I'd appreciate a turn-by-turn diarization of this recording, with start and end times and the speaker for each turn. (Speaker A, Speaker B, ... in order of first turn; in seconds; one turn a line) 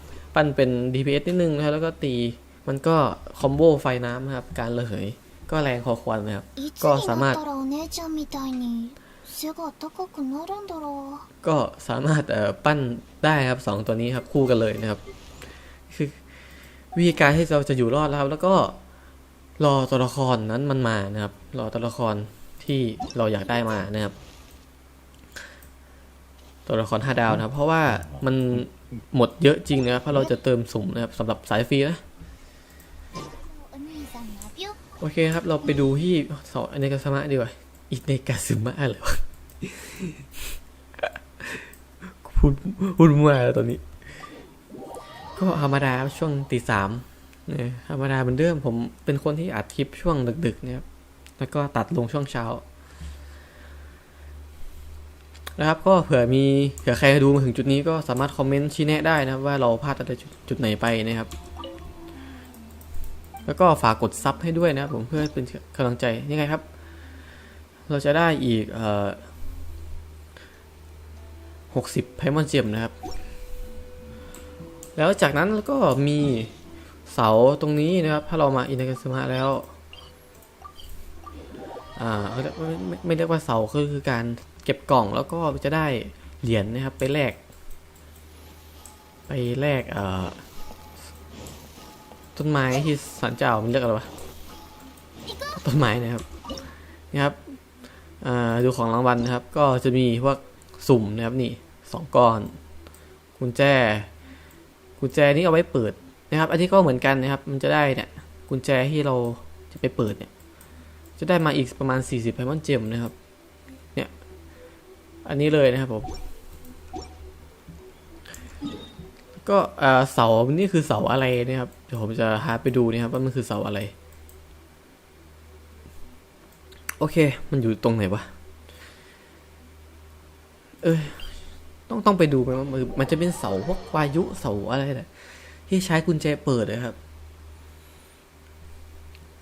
Speaker A: 0.3-7.4
Speaker B: 6.6-11.3
Speaker A: 11.4-15.0
Speaker A: 15.9-16.2
Speaker A: 16.9-18.8
Speaker A: 19.6-24.1
Speaker A: 26.6-32.0
Speaker B: 33.2-34.8
Speaker A: 35.0-40.3
Speaker A: 41.4-41.7
Speaker A: 42.2-43.8
Speaker A: 45.4-50.8
Speaker A: 51.4-52.6
Speaker A: 55.5-61.3
Speaker A: 63.5-66.6
Speaker A: 67.9-69.2
Speaker A: 71.7-72.9
Speaker A: 75.0-76.5
Speaker A: 77.1-79.7
Speaker A: 82.0-87.4
Speaker A: 89.3-90.4
Speaker A: 92.3-94.1
Speaker B: 95.2-95.6
Speaker A: 95.5-96.2
Speaker A: 97.1-97.5
Speaker A: 98.2-102.6
Speaker A: 103.4-104.1
Speaker A: 105.0-110.3
Speaker A: 111.2-113.1
Speaker A: 115.2-116.1
Speaker A: 119.4-123.9
Speaker A: 127.0-128.3
Speaker A: 130.8-131.3
Speaker A: 131.9-136.9